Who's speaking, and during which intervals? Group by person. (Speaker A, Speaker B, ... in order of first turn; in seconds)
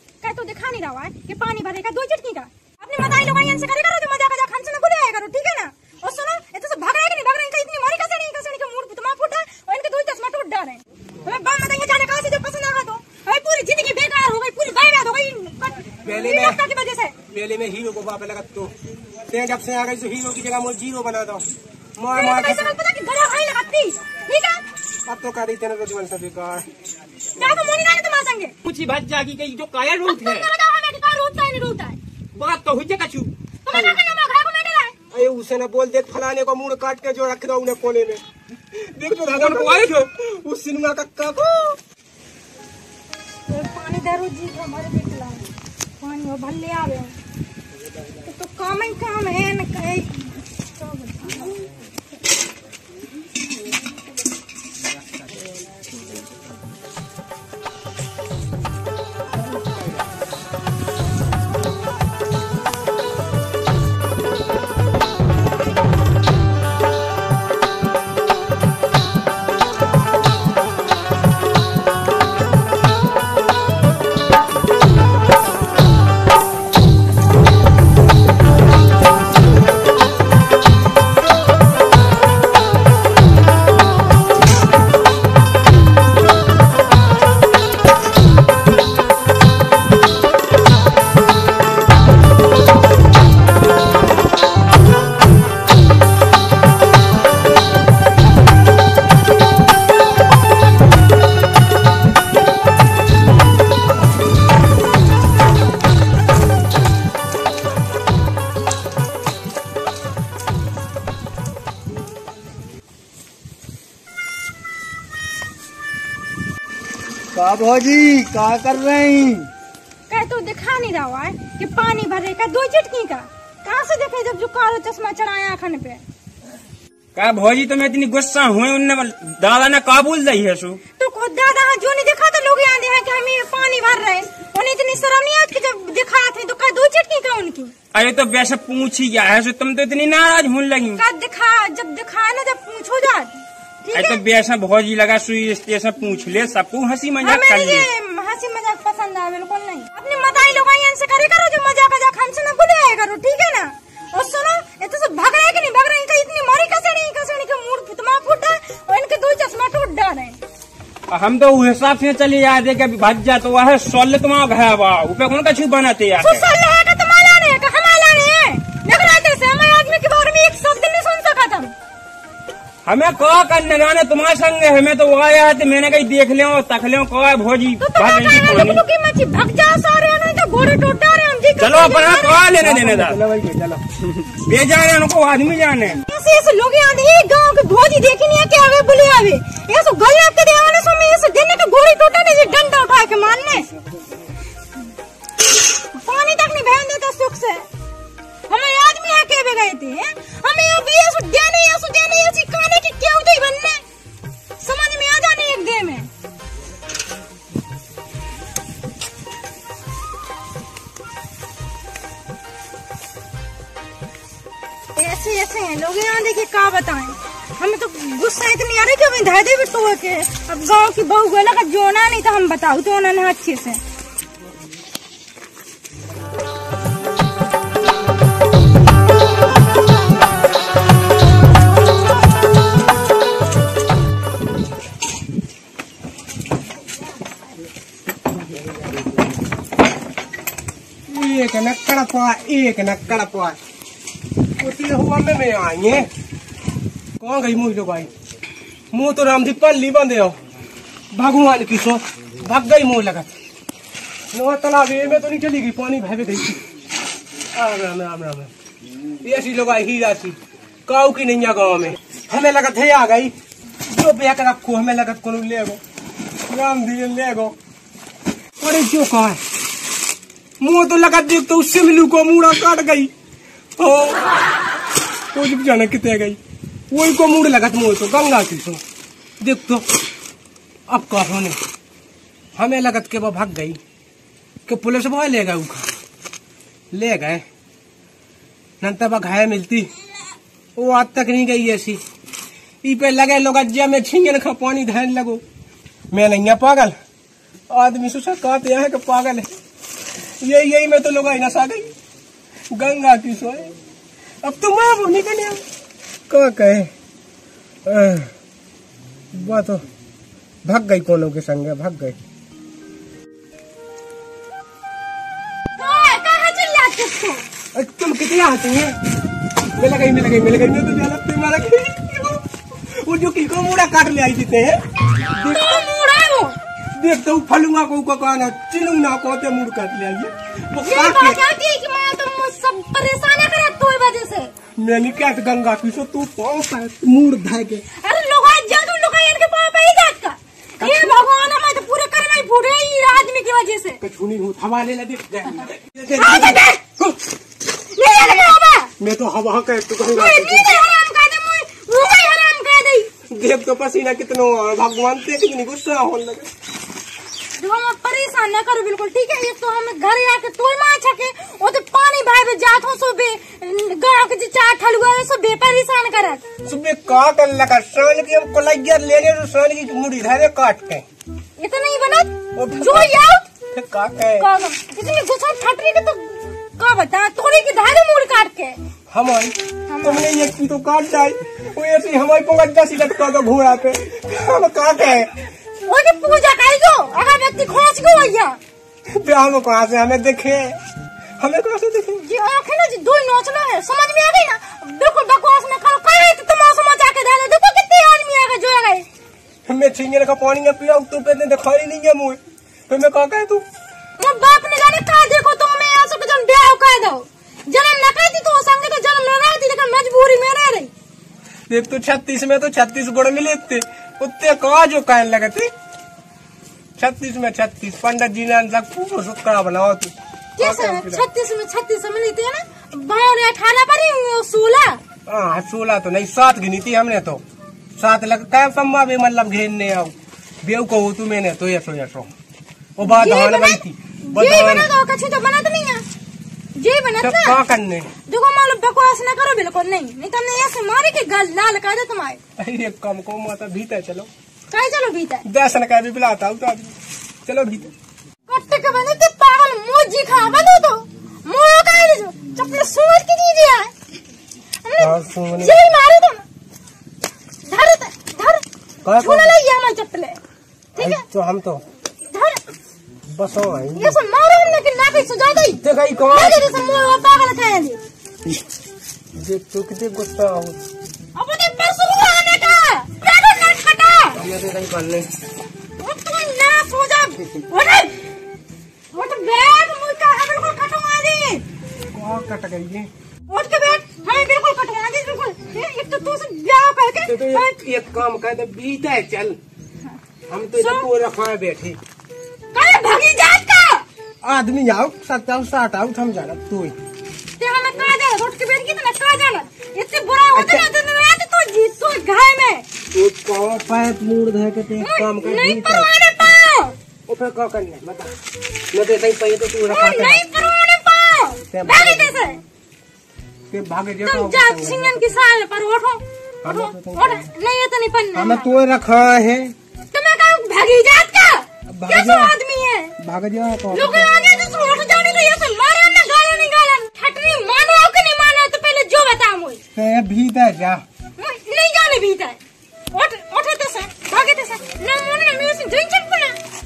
Speaker A: 0.2-17.1, 22.1-24.6, 27.4-28.6, 30.1-32.0, 33.6-35.0, 43.5-47.1, 48.2-50.2, 50.8-51.6, 120.1-126.0, 131.0-137.7, 141.0-144.2, 147.2-160.4, 166.2-171.7, 177.8-182.4, 186.1-193.7, 195.8-197.7, 198.5-203.8, 204.6-206.1, 214.9-223.8, 315.8-317.4, 325.4-326.6, 330.8-334.5, 338.0-344.0, 346.1-347.1, 347.8-348.9, 350.1-353.1, 357.6-366.4, 371.6-373.5, 374.4-378.8, 379.9-380.3, 385.8-388.6, 392.2-399.1, 404.2-410.9, 420.6-425.0, 433.0-436.0, 436.8-437.6, 438.3-442.4, 444.7-445.4, 448.5-453.9, 454.8-456.4, 457.7-458.6, 459.1-460.4, 461.0-461.2, 462.3-462.6, 463.9-468.0, 471.4-474.4, 476.0-478.2, 479.1-481.6, 483.5-487.8, 490.8-491.1, 492.7-494.1, 497.6-502.9, 505.0-506.9, 509.9-512.6, 514.2-518.7, 520.1-523.1, 523.9-529.8, 531.4-532.6, 533.1-536.6
Speaker B: 16.1-16.6, 17.3-18.7, 19.3-21.5, 22.0-22.7, 25.1-26.7, 35.1-38.2, 38.8-41.8, 182.6-183.8, 241.1-243.6, 244.6-246.1, 247.2-248.1, 248.9-250.4, 251.1-253.3, 254.3-256.6, 257.6-258.5, 259.2-260.4, 260.9-263.3, 263.9-265.8, 266.5-267.6, 268.6-269.4, 270.6-273.1, 273.8-274.2, 275.3-276.4, 276.9-278.8, 279.4-279.8, 280.9-281.6, 282.6-283.8, 284.7-285.9, 286.9-287.4, 288.8-289.9, 290.8-292.0, 292.8-295.4, 296.1-296.9, 297.7-299.5, 300.4-301.9, 302.7-303.7, 304.4-305.6, 306.3-306.9, 307.9-308.3, 309.3-309.8, 310.6-312.2, 317.8-318.9, 319.8-322.4, 323.0-324.8, 325.4-325.9, 327.0-331.4, 334.8-337.8, 340.8-341.2, 344.0-346.6, 349.0-350.7, 353.3-356.5, 366.7-371.1, 372.6-373.2, 373.7-374.5, 379.1-385.4, 389.2-390.8, 391.4-392.2, 399.7-403.6, 411.7-415.7, 417.0-421.2, 425.3-427.4, 428.0-432.3, 433.0-434.9, 437.2-438.1, 442.6-444.3, 445.5-446.9, 447.5-447.9, 455.0-455.8, 459.1-459.5, 461.0-461.8, 463.3-464.2, 465.8-466.7, 469.4-470.8, 474.4-475.3, 482.1-483.1, 487.3-489.6, 490.5-492.0, 494.4-497.0, 500.6-500.9, 503.1-506.1, 507.3-508.3, 508.9-510.4, 511.7-512.3, 513.7-515.2, 516.6-517.4, 518.4-519.8, 521.9-522.5, 523.2-524.3, 530.0-531.0
Speaker C: 28.6-30.5, 32.4-33.3, 39.3-39.9, 127.2-130.8, 137.9-141.0, 143.9-147.9, 161.1-166.4, 172.8-178.8, 181.6-183.2, 184.3-186.0
Speaker D: 117.3-119.5